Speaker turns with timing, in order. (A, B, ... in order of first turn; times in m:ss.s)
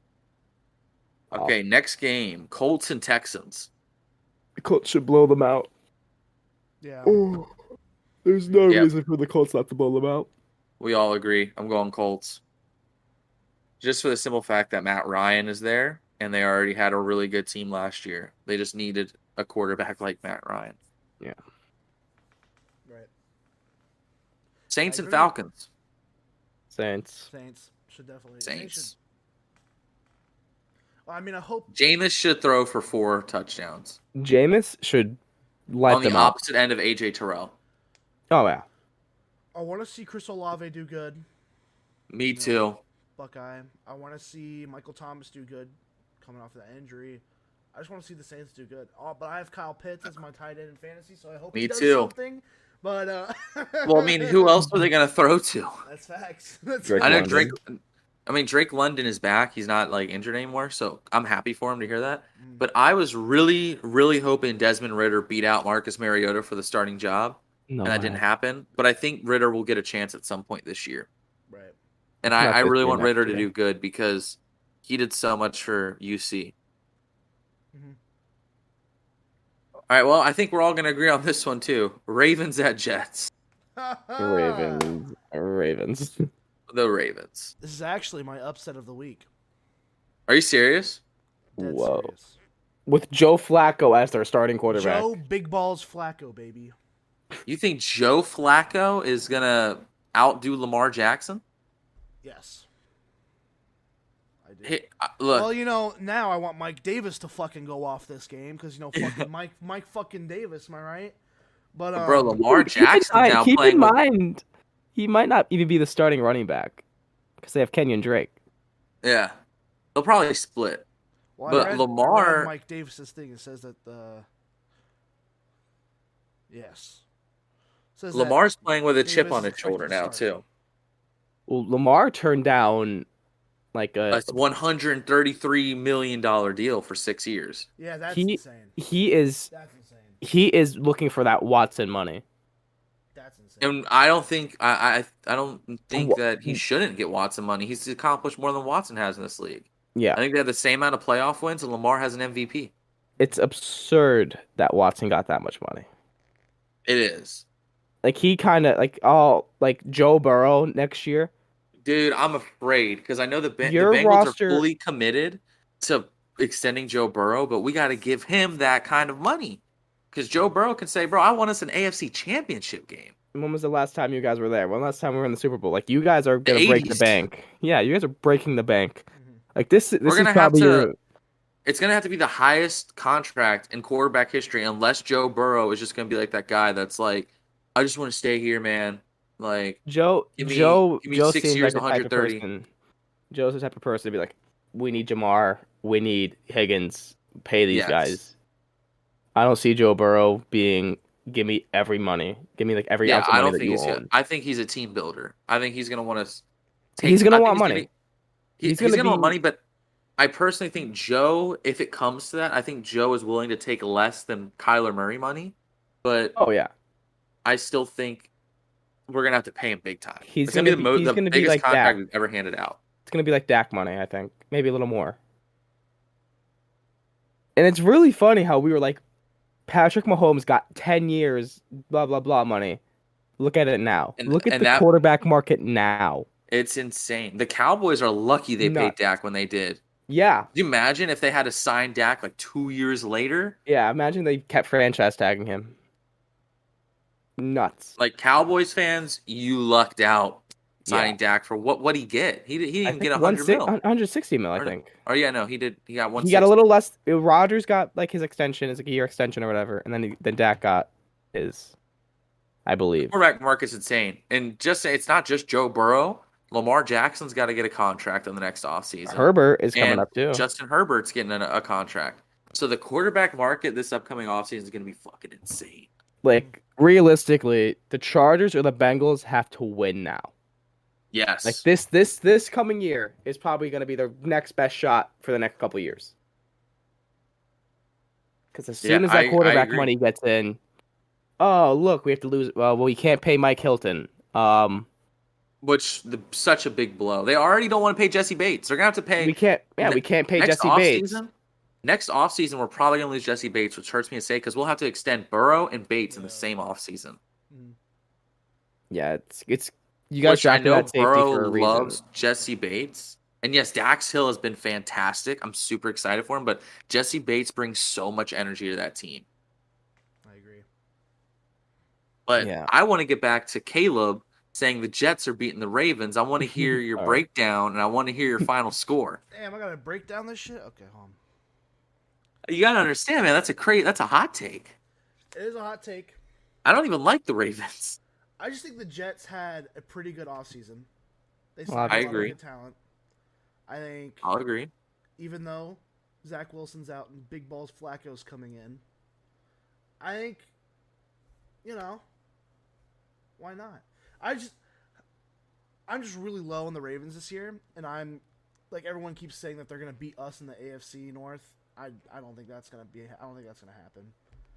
0:01.3-0:03.7 A
0:04.6-0:05.7 B
0:06.8-0:07.2 C
0:07.0-0:07.5 B
0:08.2-0:10.3 B
0:10.8-0:12.4 A
0:13.8-0:20.8 A
0:24.7-0:25.7 A
0:24.8-0:25.3 C
0:26.7-0:27.3 B
0:27.3-0:28.9 C
0:28.4-0:28.9 A
0:31.0-0:31.7 C
0:31.7-0:34.0 A
0:34.2-0:35.2 B
0:35.7-0:36.3 B
0:35.9-0:37.5 A
0:38.3-0:38.6 B
0:39.5-0:41.2 C
0:42.1-0:42.8 A
0:42.3-0:42.6 C
0:43.2-0:54.6 C
0:51.5-0:52.1 A
0:53.8-0:55.7 A
0:55.8-0:57.5 C
0:56.8-0:57.6 B
0:57.0-1:11.1 A
1:02.4-1:02.6 C
1:07.7-1:08.2 B
1:11.5-1:11.7 C
1:12.2-1:16.5 A
1:12.3-1:13.5 B
1:17.7-1:18.0 C
1:19.9-1:23.3 A
1:23.8-1:25.0 C
1:24.2-1:26.3 B
1:26.7-1:27.5 A
1:27.6-1:29.3 C
1:30.3-1:31.0 A
1:31.6-1:32.4 C
1:31.6-1:32.1 B
1:32.9-1:35.2 B
1:34.7-1:36.7 C
1:37.4-1:41.4 A
1:42.2-1:42.6 C
1:44.4-1:44.8 C
1:44.6-1:45.5 A
1:45.3-1:51.2 C
1:48.9-1:49.3 A
1:51.7-1:52.4 C
1:51.9-1:54.0 A
1:52.4-1:54.4 B
1:54.9-1:56.8 B
1:57.4-1:58.3 B
1:59.0-1:59.4 A
1:59.9-2:00.8 A
2:01.4-2:04.2 C
2:01.5-2:02.5 A
2:06.5-2:07.0 C
2:08.0-2:08.5 C
2:08.1-2:10.4 A
2:09.0-2:10.4 C
2:11.5-2:13.1 B
2:13.7-2:14.4 B
2:14.1-2:17.7 A
2:17.8-2:18.8 C
2:18.1-2:19.5 B
2:19.5-2:20.2 C
2:20.2-2:22.2 B
2:23.1-2:23.8 C
2:23.6-2:32.7 A
2:25.9-2:26.6 B
2:29.9-2:30.2 B
2:33.2-2:35.8 B
2:36.8-2:37.4 A
2:38.0-2:41.3 B
2:41.8-2:49.6 A
2:43.6-2:44.6 B
2:50.1-2:53.1 A
2:53.3-2:59.0 B
2:56.4-2:57.2 A
2:59.1-2:59.4 C
2:59.5-3:00.9 B
3:00.0-3:00.9 A
3:01.6-3:09.8 A
3:09.8-3:12.6 B
3:10.4-3:12.4 A
3:13.3-3:18.3 B
3:17.7-3:18.2 A
3:19.3-3:24.1 B
3:23.0-3:26.4 A
3:27.0-3:27.9 B
3:27.0-3:27.9 A
3:28.6-3:29.6 A
3:28.6-3:29.3 B
3:30.2-3:36.3 A
3:36.4-3:36.7 B
3:37.4-3:38.3 A
3:39.1-3:42.8 A
3:40.2-3:42.0 B
3:43.0-3:45.2 B
3:47.6-3:49.0 B
3:49.7-3:52.8 B
3:53.4-3:56.3 B
3:54.2-3:54.9 A
3:56.5-3:59.8 A
3:58.6-3:58.9 B
4:00.1-4:00.5 B
4:00.5-4:03.6 A
4:03.6-4:05.7 B
4:07.4-4:08.0 B
4:08.0-4:13.7 A
4:10.8-4:11.2 B
4:12.8-4:14.9 B
4:14.6-4:16.5 A
4:16.2-4:21.7 B
4:22.6-4:23.1 B
4:23.0-4:35.9 A
4:29.1-4:30.4 B
4:36.2-4:40.3 B
4:41.1-4:41.6 A
4:41.4-4:46.1 B
4:48.5-4:50.6 B
4:48.8-4:49.9 A
4:51.4-4:54.9 B
4:55.6-5:01.3 A
4:59.2-5:01.2 B
5:01.8-5:07.2 A
5:06.1-5:06.5 C
5:07.5-5:07.8 C
5:08.9-5:12.0 B
5:10.2-5:19.2 A
5:20.2-5:20.6 C
5:22.3-5:29.2 A
5:22.4-5:22.7 B
5:26.4-5:27.2 B
5:29.3-5:31.2 C
5:32.5-5:34.7 A
5:35.3-5:36.2 C
5:36.6-5:38.0 A
5:38.4-5:40.9 C
5:41.6-5:42.8 C
5:41.7-5:42.3 B
5:41.9-5:42.3 A
5:43.7-5:44.2 C
5:44.2-5:44.7 A
5:45.2-5:48.8 C
5:50.0-5:50.5 C
5:51.6-5:52.0 C
5:53.4-5:54.6 C
5:55.9-6:04.1 C